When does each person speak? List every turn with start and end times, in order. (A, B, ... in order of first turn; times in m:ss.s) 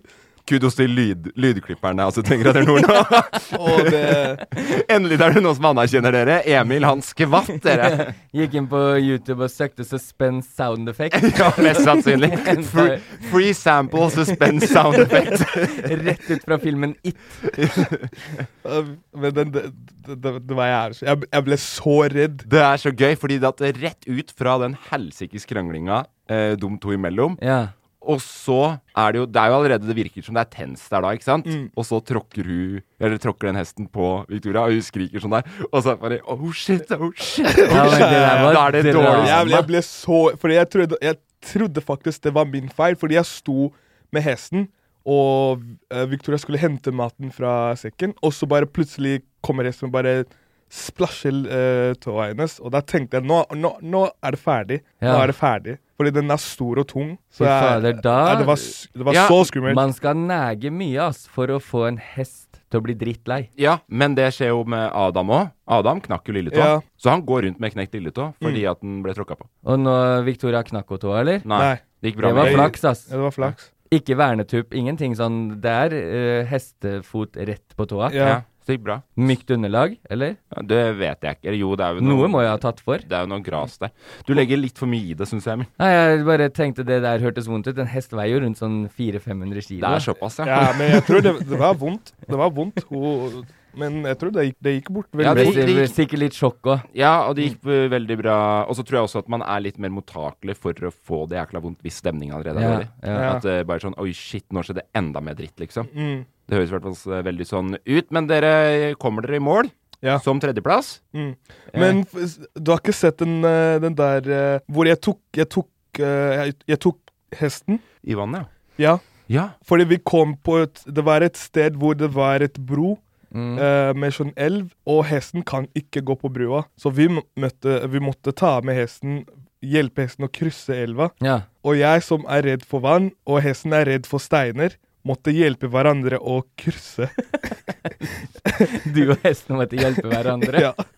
0:00.4-0:08.1 A
0:03.5-0:04.4 B
0:07.7-0:13.3 C
0:11.1-0:15.9 A
0:14.7-0:17.4 C
0:17.5-0:18.1 A
0:18.6-0:22.4 B
0:22.4-0:27.4 A
0:27.4-0:27.7 C
0:28.0-0:39.5 A
0:37.5-0:59.8 B
0:37.7-0:39.7 C
0:55.0-0:55.3 C
0:57.4-0:58.7 C
0:59.1-0:59.5 A
0:59.6-1:03.5 C
1:03.6-1:09.5 A
1:06.5-1:06.8 B
1:09.6-1:11.5 C
1:11.4-1:12.8 A
1:11.5-1:13.7 B
1:12.2-1:13.1 C
1:13.9-1:18.2 C
1:18.1-1:18.4 B
1:18.2-1:19.0 A
1:19.2-1:20.4 C
1:20.5-1:25.7 A
1:22.0-1:23.0 C
1:25.8-1:30.1 C
1:29.8-1:31.3 A
1:30.4-1:35.6 B
1:35.2-1:35.9 A
1:35.2-1:36.8 C
1:36.9-1:45.9 A
1:42.5-1:43.3 C
1:43.1-1:43.4 B
1:45.9-1:46.3 B
1:46.5-1:51.0 A
1:51.1-1:57.8 B
1:51.7-1:52.0 A
1:58.0-1:58.5 A
1:59.3-1:59.5 A
1:59.6-2:03.0 B
2:03.3-2:03.6 C
2:03.6-2:17.1 B
2:11.2-2:11.5 C
2:18.6-2:20.7 C
2:20.5-2:20.8 B